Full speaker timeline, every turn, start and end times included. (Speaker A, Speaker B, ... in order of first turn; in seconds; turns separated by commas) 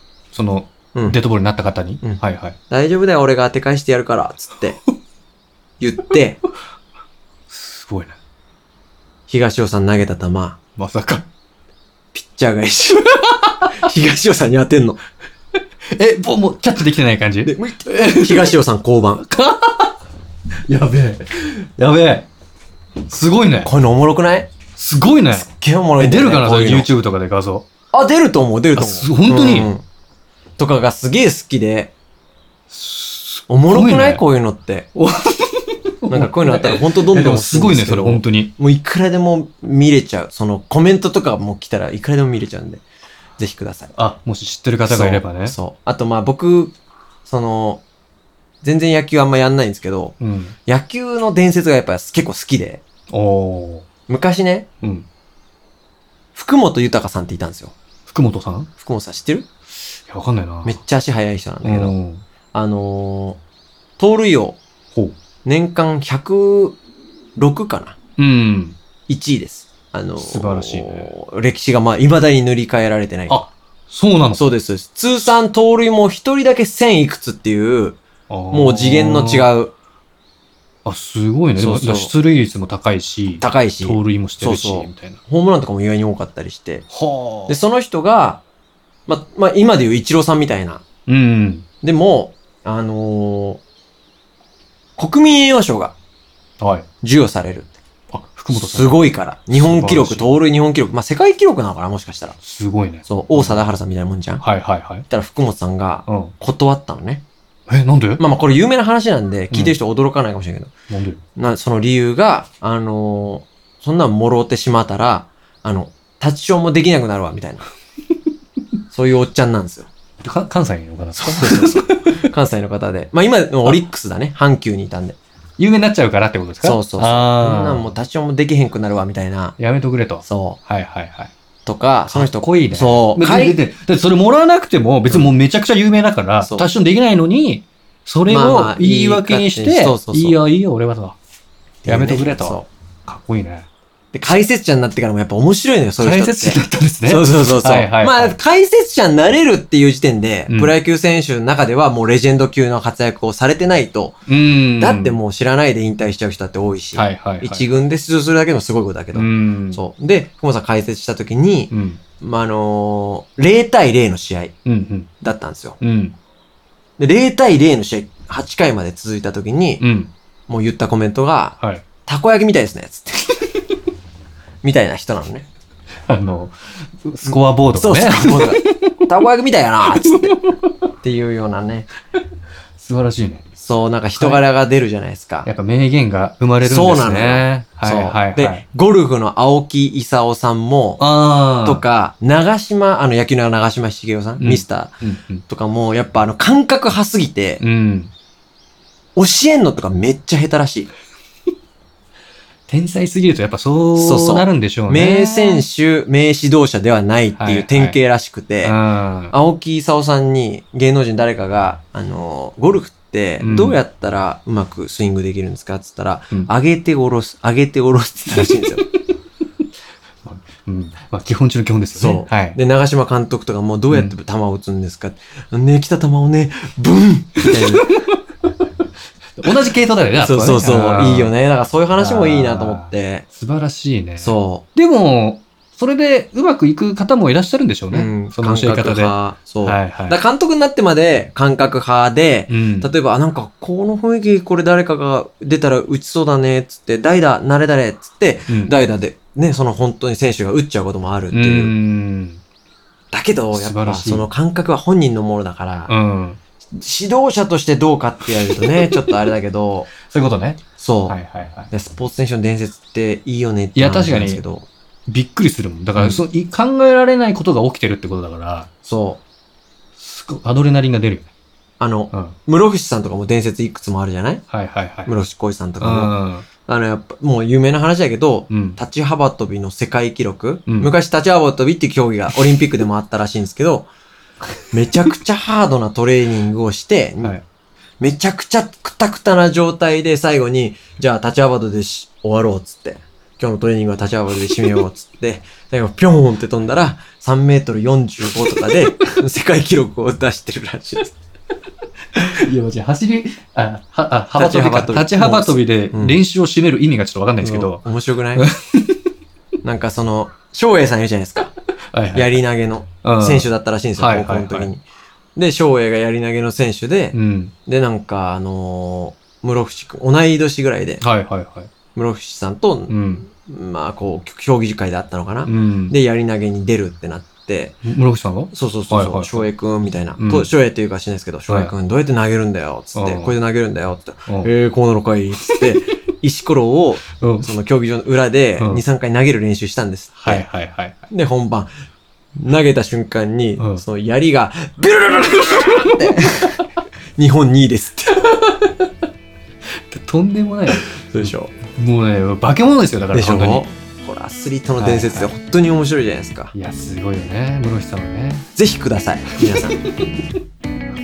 Speaker A: 0.3-2.6, Speaker B: 0.9-1.2, Speaker B: 2.0-4.8, Speaker B: 5.8-6.4, Speaker A: 7.5-8.2, Speaker B: 9.3-10.6, Speaker A: 10.8-11.3, Speaker B: 12.1-15.0, Speaker A: 15.9-18.6, Speaker B: 17.5-19.2, Speaker A: 19.2-19.9, Speaker A: 20.7-22.3, Speaker A: 23.1-23.7, Speaker B: 23.6-24.5, Speaker A: 24.8-27.6, Speaker B: 25.4-26.9, Speaker B: 27.9-29.8, Speaker A: 28.8-29.7, Speaker B: 30.6-31.9, Speaker A: 32.7-34.2, Speaker B: 33.5-34.9, Speaker A: 35.0-38.5, Speaker B: 36.1-42.8, Speaker B: 43.4-44.0, Speaker A: 44.0-45.6, Speaker B: 44.9-46.8, Speaker B: 47.3-47.8, Speaker B: 48.6-52.8, Speaker A: 50.2-50.5, Speaker A: 53.1-53.9, Speaker B: 54.1-54.7, Speaker A: 54.8-55.1, Speaker B: 56.4-57.7, Speaker A: 58.1-58.7, Speaker B: 58.8-59.5, Speaker A: 60.1-60.8, Speaker B: 60.6-62.0, Speaker A: 61.6-62.2, Speaker B: 62.5-63.4, Speaker B: 64.0-64.6, Speaker B: 65.5-66.8, Speaker B: 67.4-68.0, Speaker A: 68.2-68.8, Speaker B: 69.1-73.4, Speaker A: 70.2-71.1, Speaker A: 73.3-74.4, Speaker B: 74.3-78.0, Speaker A: 78.3-79.5, Speaker B: 78.5-79.7, Speaker A: 80.8-85.2, Speaker B: 81.5-82.1, Speaker B: 83.4-86.9, Speaker A: 86.9-87.6, Speaker B: 87.5-88.4, Speaker B: 89.1-90.8, Speaker A: 91.1-91.7, Speaker B: 91.8-93.6, Speaker B: 95.0-96.0, Speaker A: 96.6-96.9, Speaker B: 97.0-97.8, Speaker A: 98.1-100.3, Speaker B: 98.5-102.4, Speaker A: 102.4-103.8, Speaker B: 103.1-104.4, Speaker A: 104.4-105.1, Speaker B: 105.1-107.2, Speaker A: 106.1-106.3, Speaker A: 107.7-108.2, Speaker B: 108.2-110.7, Speaker A: 109.5-109.8, Speaker A: 110.9-111.2, Speaker B: 111.4-117.7, Speaker B: 118.9-119.9, Speaker A: 120.2-122.2, Speaker B: 121.2-125.2, Speaker A: 125.6-127.9, Speaker B: 126.6-129.6, Speaker A: 129.6-131.3, Speaker B: 130.2-130.6, Speaker B: 131.7-133.6, Speaker A: 132.1-141.2, Speaker B: 136.4-136.7, Speaker B: 138.3-140.4, Speaker B: 141.8-142.7, Speaker A: 141.9-143.7, Speaker B: 144.1-154.2, Speaker A: 146.0-148.3, Speaker A: 150.5-150.7, Speaker A: 154.3-155.2, Speaker B: 154.8-164.5, Speaker A: 156.9-157.7, Speaker A: 159.1-159.8, Speaker A: 161.7-162.0, Speaker A: 164.7-165.1, Speaker B: 165.2-165.8, Speaker A: 165.8-166.2, Speaker B: 167.0-169.8, Speaker A: 169.8-170.1, Speaker B: 170.5-173.3, Speaker B: 174.6-175.5, Speaker A: 176.1-179.1, Speaker B: 177.2-180.4, Speaker A: 179.9-180.6, Speaker B: 181.0-181.9, Speaker A: 182.8-183.4, Speaker B: 183.6-185.5, Speaker A: 185.4-188.7, Speaker B: 186.6-191.0, Speaker A: 191.0-191.8, Speaker B: 191.6-195.0, Speaker A: 194.4-195.4, Speaker B: 195.5-197.6, Speaker A: 197.6-198.1, Speaker B: 199.2-200.9, Speaker A: 202.7-205.7, Speaker B: 203.9-208.8, Speaker A: 207.4-208.0, Speaker A: 208.6-209.3, Speaker B: 209.3-218.8, Speaker A: 213.4-213.8, Speaker A: 218.3-218.8, Speaker A: 220.2-222.6, Speaker B: 222.0-227.9, Speaker A: 227.4-228.2, Speaker A: 229.4-231.3, Speaker B: 230.2-233.2, Speaker A: 232.0-240.2, Speaker B: 234.2-234.7, Speaker B: 237.9-251.8, Speaker A: 242.5-242.9, Speaker A: 251.3-252.4, Speaker B: 253.1-255.9, Speaker A: 253.5-254.3, Speaker A: 255.9-256.4, Speaker B: 256.7-259.9, Speaker A: 258.3-258.9, Speaker A: 260.1-261.7, Speaker B: 260.8-261.2, Speaker B: 261.7-264.7, Speaker A: 263.8-264.4, Speaker A: 265.1-268.7, Speaker B: 266.0-266.2, Speaker B: 268.9-269.2, Speaker A: 270.0-271.3, Speaker B: 271.8-274.4, Speaker A: 274.5-275.1, Speaker B: 275.1-276.1, Speaker A: 275.8-276.5, Speaker B: 276.7-283.9, Speaker A: 278.5-278.8, Speaker A: 280.7-280.9, Speaker B: 284.7-287.4, Speaker B: 288.0-301.2, Speaker A: 302.1-309.0, Speaker B: 304.4-306.2, Speaker B: 307.4-308.4, Speaker B: 309.6-311.5, Speaker A: 311.9-312.4, Speaker B: 312.1-314.8, Speaker A: 313.0-314.7, Speaker B: 315.4-321.0, Speaker A: 317.1-317.5, Speaker A: 321.0-321.7, Speaker B: 321.9-327.8, Speaker A: 322.9-323.3, Speaker A: 325.4-325.9, Speaker A: 327.8-329.5, Speaker B: 328.5-340.4, Speaker A: 330.2-330.5, Speaker A: 331.5-331.7, Speaker A: 332.9-333.3, Speaker A: 337.2-337.5, Speaker A: 340.2-341.0, Speaker B: 341.1-341.7, Speaker B: 342.4-346.6, Speaker A: 343.6-343.8, Speaker A: 345.5-346.1, Speaker B: 347.2-348.3, Speaker A: 348.3-348.7, Speaker A: 349.9-353.7, Speaker B: 350.9-351.5, Speaker B: 353.1-356.5, Speaker A: 354.8-355.3, Speaker A: 356.5-358.5, Speaker B: 358.6-359.8, Speaker A: 359.4-360.0